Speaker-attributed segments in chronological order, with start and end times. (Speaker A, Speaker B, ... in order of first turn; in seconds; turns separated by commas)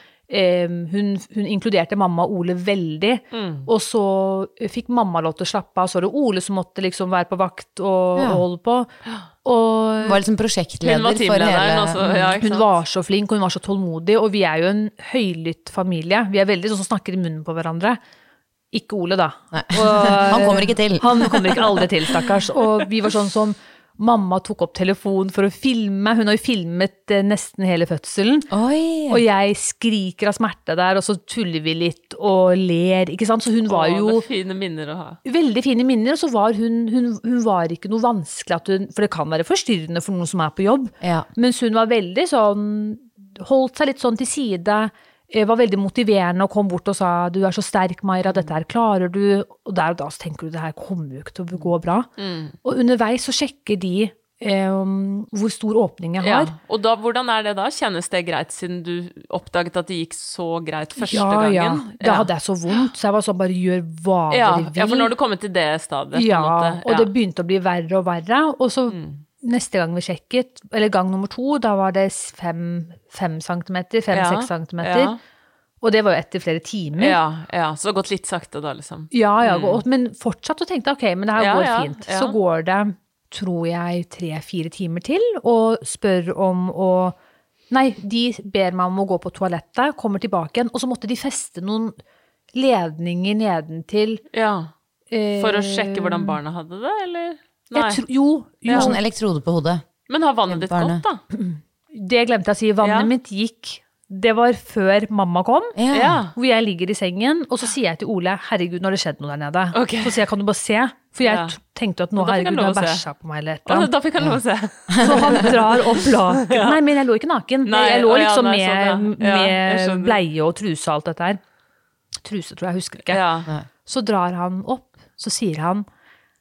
Speaker A: 0.3-8.9, Speaker B: 3.3-3.7, Speaker C: 8.2-8.4, Speaker A: 9.4-10.2, Speaker C: 10.0-12.4, Speaker B: 10.8-12.7, Speaker A: 12.4-18.0, Speaker A: 18.7-28.5, Speaker C: 19.5-21.7, Speaker C: 28.5-29.2, Speaker A: 29.1-34.2, Speaker B: 33.7-35.2, Speaker A: 35.2-52.1, Speaker C: 41.0-41.3, Speaker B: 52.2-52.6, Speaker A: 52.6-56.5, Speaker B: 56.2-62.3, Speaker A: 61.0-65.1, Speaker B: 64.3-67.1, Speaker A: 66.1-75.2, Speaker B: 68.9-69.2, Speaker B: 74.1-75.2, Speaker A: 75.8-77.2, Speaker B: 77.0-79.8, Speaker A: 79.1-87.2, Speaker B: 81.4-82.4, Speaker A: 87.7-92.0, Speaker A: 92.5-94.2, Speaker B: 94.3-94.7, Speaker A: 95.1-96.4, Speaker B: 95.4-98.0, Speaker A: 97.7-99.0, Speaker B: 98.7-98.9, Speaker C: 98.7-99.9, Speaker B: 100.1-101.2, Speaker C: 100.5-101.0, Speaker A: 101.3-105.8, Speaker B: 102.8-103.1, Speaker C: 105.8-106.3, Speaker B: 105.9-106.3, Speaker A: 106.3-113.9, Speaker B: 109.7-110.2, Speaker B: 111.2-111.5, Speaker B: 112.2-113.0, Speaker B: 113.7-116.8, Speaker A: 115.0-121.4, Speaker B: 117.6-120.2, Speaker A: 122.2-123.2, Speaker B: 123.1-123.5, Speaker A: 123.8-125.9